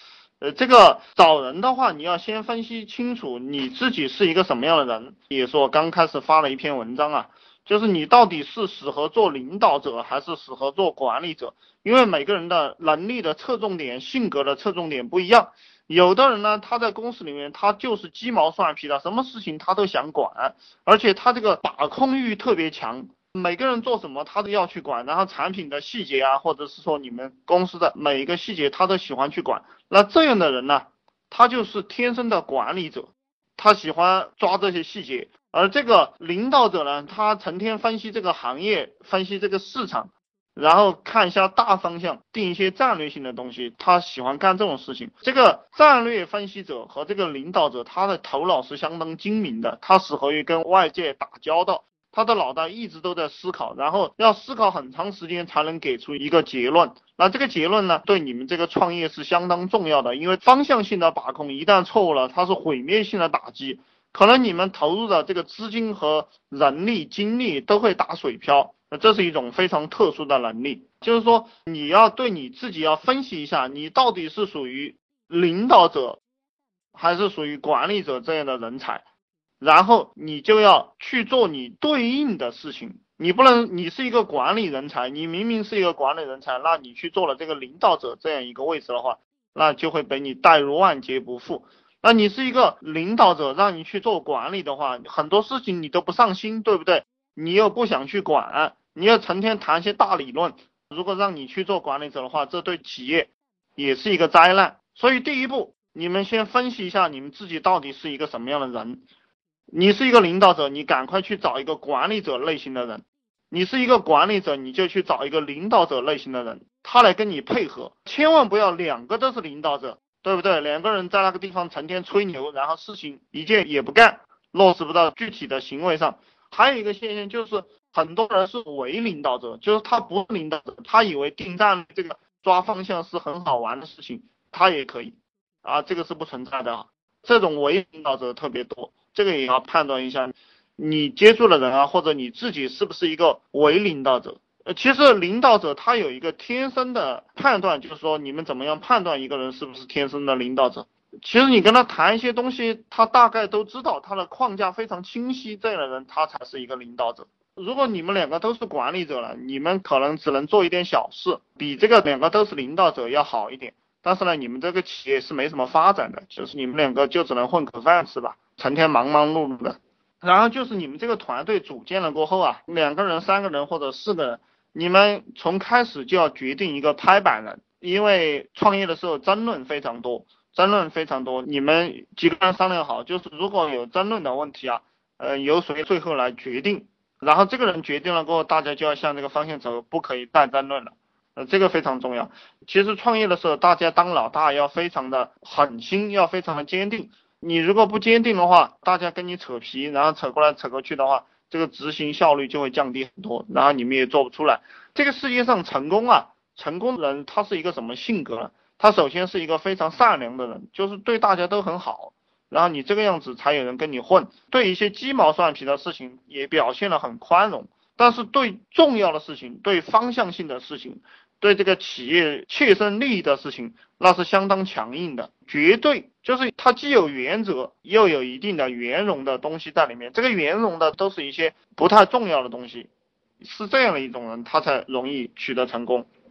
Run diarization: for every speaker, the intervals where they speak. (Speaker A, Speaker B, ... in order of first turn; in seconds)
Speaker A: 0.4-76.2, 76.9-79.0, 79.6-109.0, 109.7-232.9, 233.4-236.1